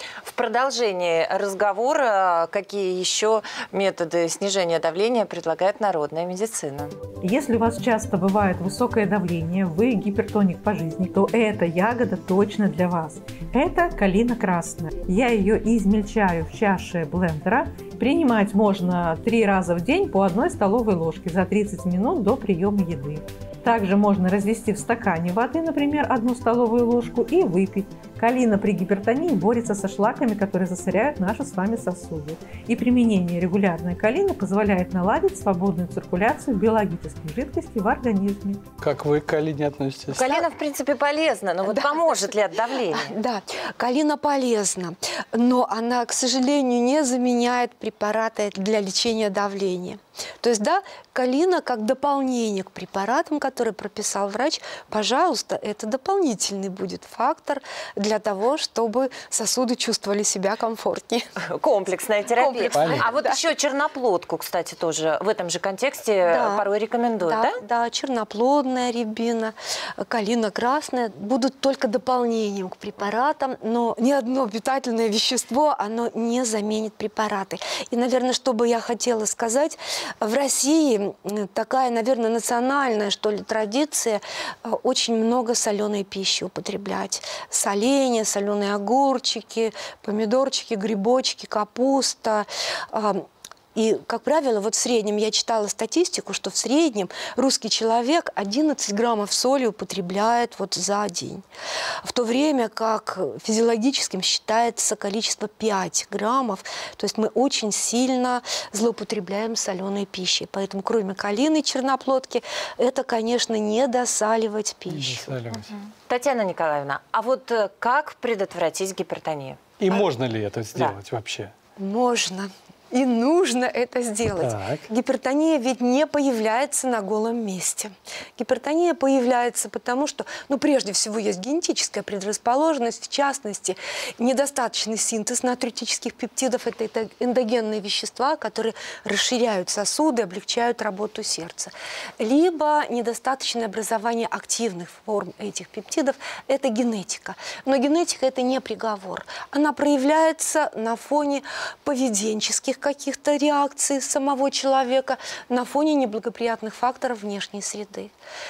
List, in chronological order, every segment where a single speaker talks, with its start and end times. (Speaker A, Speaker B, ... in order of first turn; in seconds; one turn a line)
Speaker A: 0.2-6.9
Speaker B: 7.2-38.6
Speaker C: 38.8-40.4
Speaker A: 40.1-43.1
Speaker D: 41.6-42.3
Speaker D: 42.9-61.3
Speaker A: 61.4-67.6
Speaker D: 62.4-63.4
Speaker C: 62.7-63.1
Speaker D: 66.3-66.7
Speaker D: 67.2-101.4
Speaker D: 102.0-115.3
Speaker C: 114.9-115.7
Speaker A: 116.1-119.6
Speaker C: 119.8-121.5
Speaker D: 121.8-158.1
Speaker C: 124.3-124.9